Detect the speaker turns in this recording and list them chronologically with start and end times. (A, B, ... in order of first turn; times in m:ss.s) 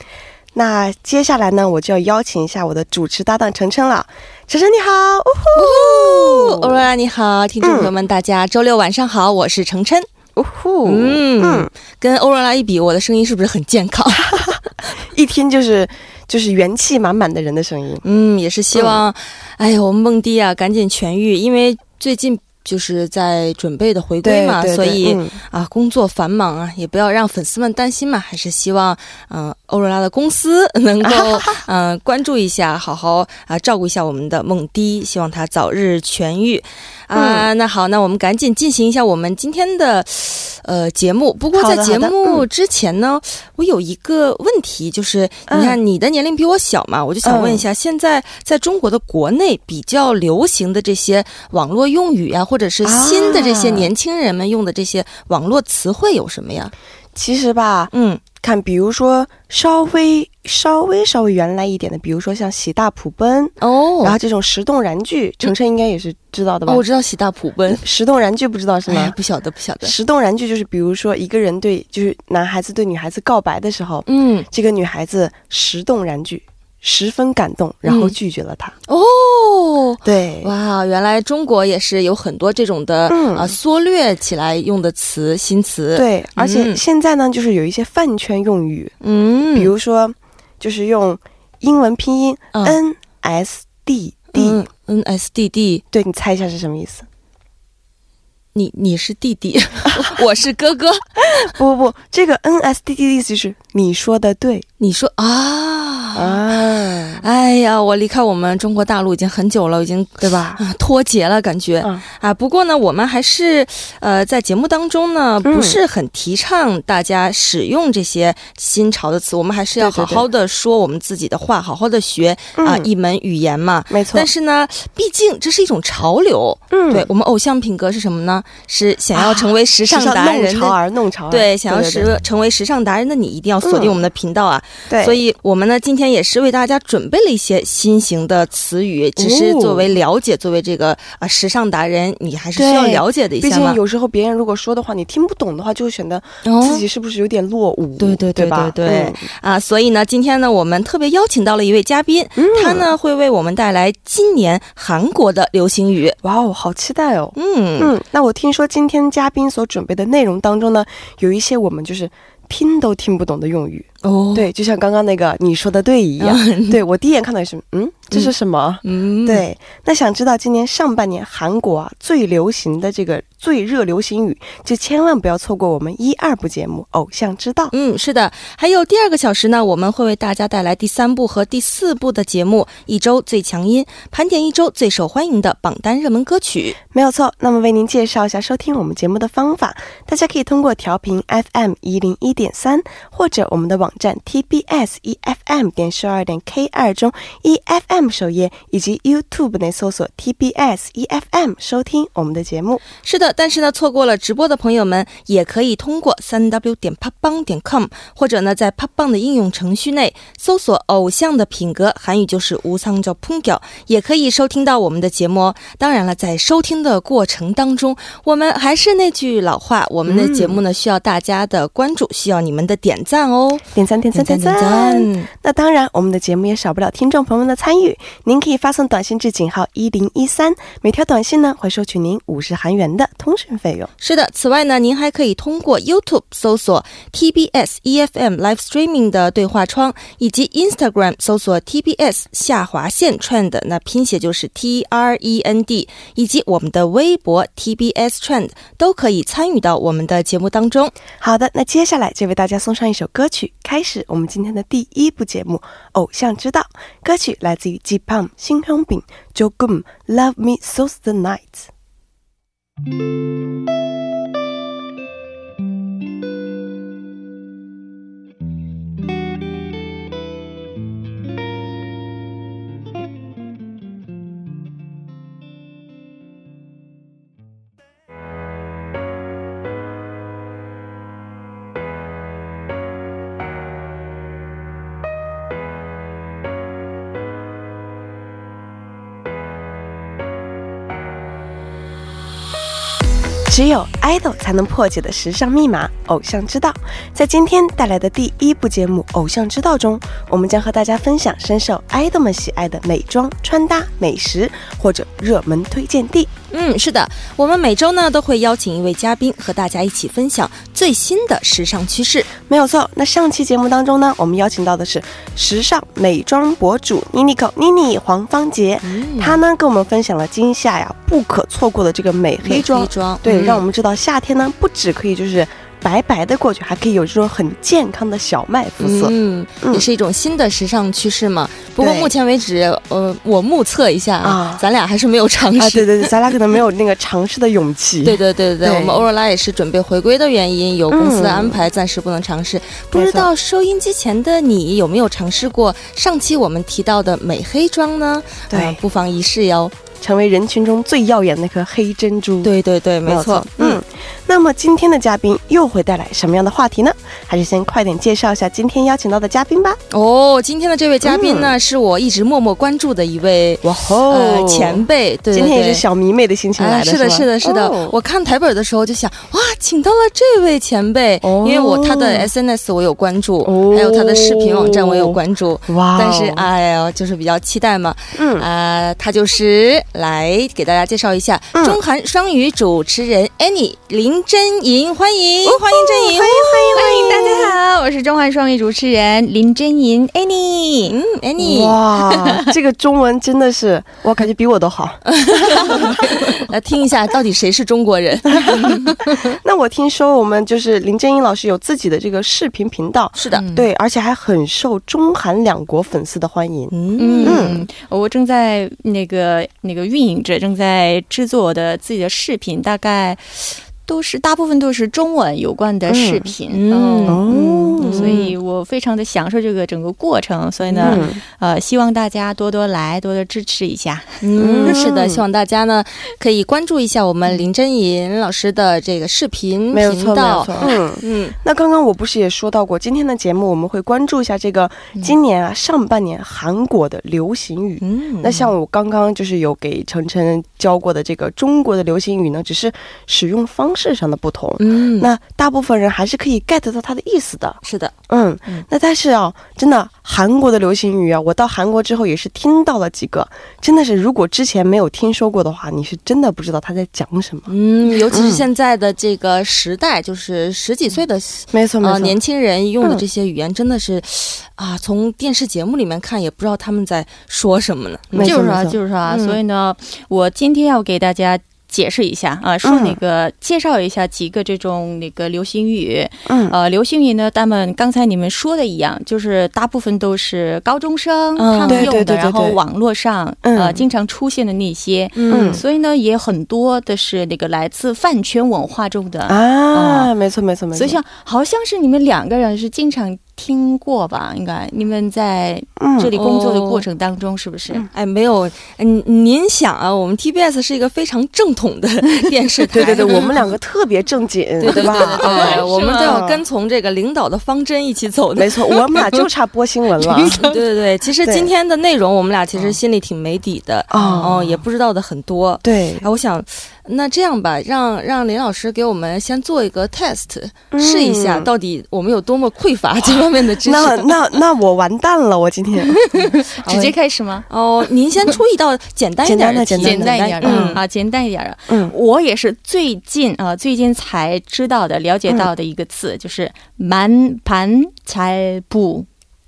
0:00.5-0:06.9 A
0:05.5-0:10.1 B
0:07.6-0:07.9 A
0:10.4-0:11.7 A
0:10.8-0:14.6 B
0:14.2-0:18.0 A
0:18.0-0:56.7 B
0:18.7-0:19.0 A
0:24.2-0:25.4 A
0:31.0-0:31.6 A
0:37.1-0:37.5 A
0:41.5-0:42.4 A
0:45.5-0:45.8 A
0:47.2-0:47.6 A
0:52.8-0:53.9 A
0:57.1-1:06.8 A
0:57.9-0:58.2 B
1:03.6-1:04.2 B
1:06.7-1:07.8 B
1:07.7-1:09.2 A
1:08.9-1:09.9 B
1:09.8-1:18.7 A
1:14.0-1:14.5 B
1:17.8-1:18.1 B
1:18.9-1:26.8 B
1:20.0-1:20.5 A
1:23.1-1:23.6 A
1:25.9-1:28.9 A
1:29.0-1:29.7 B
1:29.5-1:34.6 A
1:34.3-1:35.8 B
1:35.9-1:37.0 A
1:38.5-1:41.5 B
1:41.3-1:44.6 A
1:44.8-2:10.8 B
1:46.1-1:47.2 A
1:50.2-1:50.6 A
1:55.4-1:55.8 A
1:59.8-2:00.2 A
2:02.6-2:02.9 A
2:03.9-2:04.3 A
2:06.7-2:07.1 A
2:09.1-2:12.1 A
2:11.3-2:23.8 B
2:13.6-2:14.0 A
2:14.9-2:15.2 A
2:19.2-2:19.9 A
2:22.5-2:29.2 A
2:26.4-2:26.8 B
2:28.0-2:36.2 B
2:32.4-2:32.9 A
2:36.2-2:57.7 A
2:37.3-2:37.9 B
2:44.0-2:44.5 B
2:46.2-2:46.8 B
2:48.8-2:49.4 B
2:57.7-3:06.8 B
3:06.9-3:22.8 A
3:23.0-3:45.3 B
3:40.1-3:40.6 A
3:43.7-3:53.9 A
3:54.0-4:10.9 B
4:11.2-4:21.7 A
4:53.5-5:06.3 A
5:06.5-5:12.3 B
5:12.4-5:29.9 A
5:18.8-5:19.4 B
5:22.4-5:23.6 B
5:28.8-5:36.1 B
5:31.8-5:32.1 A
5:34.2-5:34.6 A
5:35.6-5:39.0 A
5:38.0-5:49.8 B
5:40.9-5:41.6 A
5:42.9-5:43.3 A
5:48.5-5:48.8 A
5:50.0-5:52.5 A
5:52.4-5:53.8 B
5:53.0-5:59.8 A
5:59.9-6:05.8 B
6:01.0-6:01.5 A
6:03.6-6:07.9 A
6:06.6-6:26.8 B
6:11.2-6:12.3 A
6:13.4-6:15.2 A
6:15.7-6:16.4 A
6:18.1-6:18.4 A
6:25.4-6:27.6 A
6:26.7-6:31.0 C
6:30.9-6:31.8 B
6:31.4-6:36.2 A
6:35.1-6:39.2 B
6:38.4-6:46.7 A
6:43.2-6:43.4 B
6:43.3-6:43.6 C
6:46.7-6:47.5 B
6:47.0-7:04.2 C
6:47.2-6:47.6 A
6:55.9-6:56.3 A
6:56.5-6:57.3 B
6:57.1-6:58.1 A
6:57.8-6:58.3 B
7:00.8-7:01.2 A
7:00.8-7:01.1 B
7:04.2-7:11.4 B
7:04.4-7:05.2 A
7:09.7-7:37.5 A
7:17.8-7:18.5 B
7:24.6-7:25.1 B
7:27.6-7:27.9 B
7:37.5-7:48.3 B
7:38.0-7:38.4 A
7:41.5-7:42.2 A
7:48.1-7:48.8 A
7:48.2-8:10.1 C
7:49.1-7:49.4 B
7:52.6-7:53.0 A
7:56.3-7:56.5 A
8:01.4-8:01.9 B
8:01.7-8:02.6 A
8:03.4-8:03.8 A
8:05.1-8:05.6 B
8:05.3-8:05.6 A
8:09.3-8:11.0 A
8:10.7-8:17.9 C
8:15.8-8:16.1 A
8:16.1-8:16.8 B
8:17.9-8:23.5 B
8:22.7-8:26.4 A
8:22.8-8:23.2 C
8:24.6-8:29.3 B
8:24.6-8:26.2 C
8:28.4-8:30.4 A
8:30.0-8:30.6 C
8:30.3-8:44.2 B
8:31.2-8:31.5 A
8:33.9-8:34.6 A
8:35.6-8:36.0 A
8:40.7-8:41.5 A
8:43.6-8:46.0 A
8:45.8-8:47.5 C
8:46.6-8:46.9 B
8:47.5-8:50.8 B
8:49.2-8:50.8 A
8:49.8-8:59.1 C
8:51.7-8:51.9 A